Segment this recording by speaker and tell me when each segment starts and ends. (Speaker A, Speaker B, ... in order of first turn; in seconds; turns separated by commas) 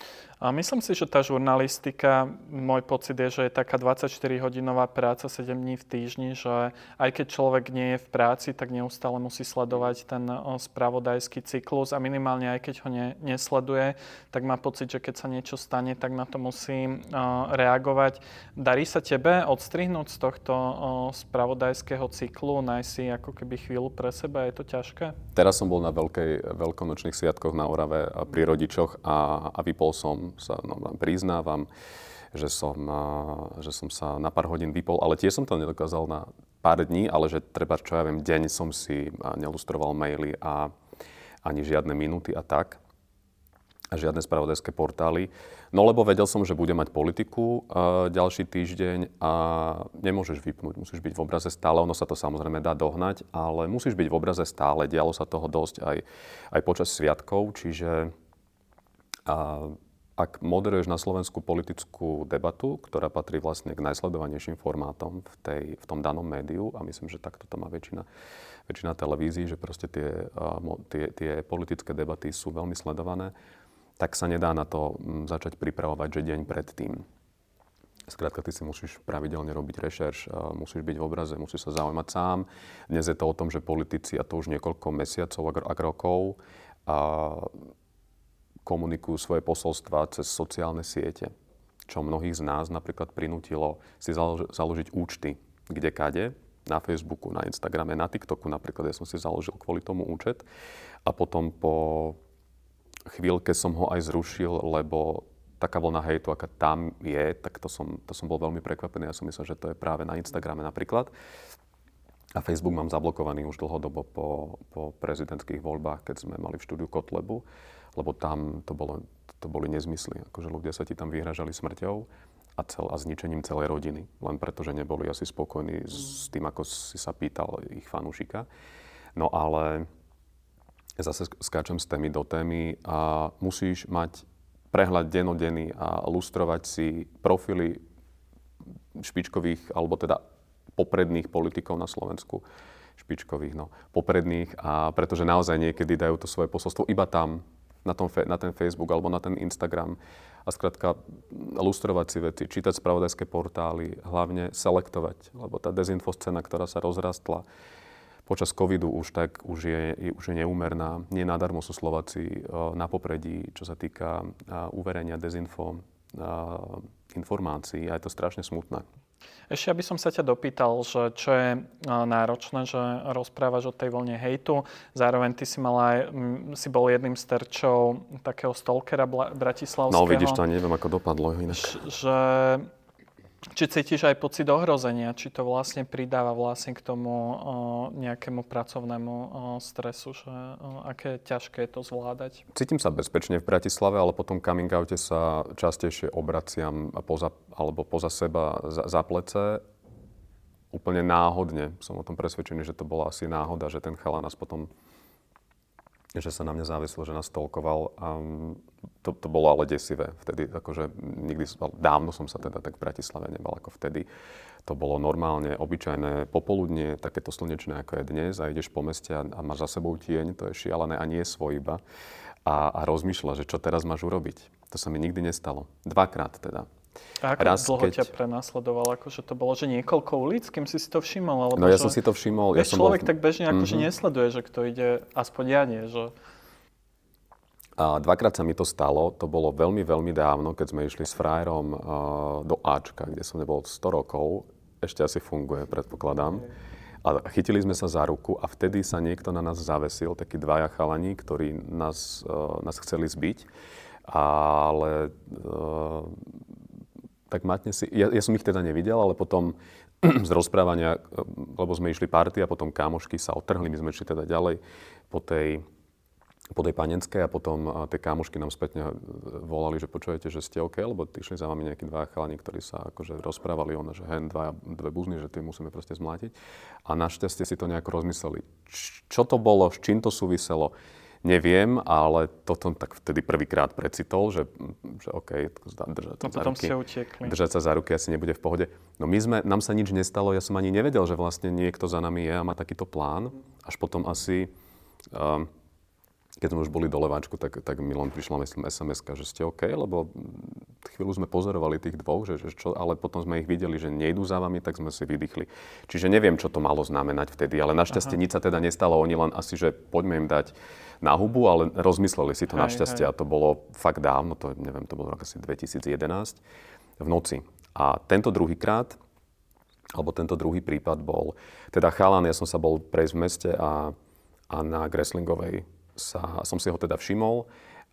Speaker A: 0.4-25.2, Speaker B: 25.4-31.7, Speaker B: 32.3-40.7, Speaker B: 41.4-42.8, Speaker B: 43.9-58.1, Speaker B: 59.2-68.0, Speaker B: 68.7-73.3, Speaker B: 74.0-77.0, Speaker B: 78.1-87.5, Speaker B: 88.6-91.3, Speaker B: 91.9-100.5, Speaker B: 101.0-102.2, Speaker B: 103.1-111.1, Speaker B: 112.3-117.4, Speaker B: 118.0-128.5, Speaker B: 129.2-129.9, Speaker B: 131.0-137.8, Speaker B: 138.9-140.2, Speaker B: 140.8-142.4, Speaker B: 143.0-157.4, Speaker B: 158.3-168.8, Speaker A: 169.5-180.4, Speaker B: 179.9-181.8, Speaker A: 181.5-182.7, Speaker A: 183.5-192.4, Speaker B: 192.5-199.6, Speaker B: 200.7-204.7, Speaker B: 206.1-214.1, Speaker B: 214.6-221.8, Speaker B: 222.5-226.7, Speaker A: 227.2-232.0, Speaker B: 227.4-228.1, Speaker B: 231.6-233.9, Speaker A: 232.5-236.1, Speaker B: 237.8-246.5, Speaker B: 247.0-253.5, Speaker B: 254.1-256.3, Speaker B: 257.3-265.6, Speaker B: 266.5-276.3, Speaker B: 276.9-294.5, Speaker A: 286.2-287.3, Speaker B: 295.1-295.5, Speaker B: 296.4-316.4, Speaker A: 312.6-313.0, Speaker B: 317.0-319.0, Speaker B: 319.9-323.9, Speaker B: 324.5-327.5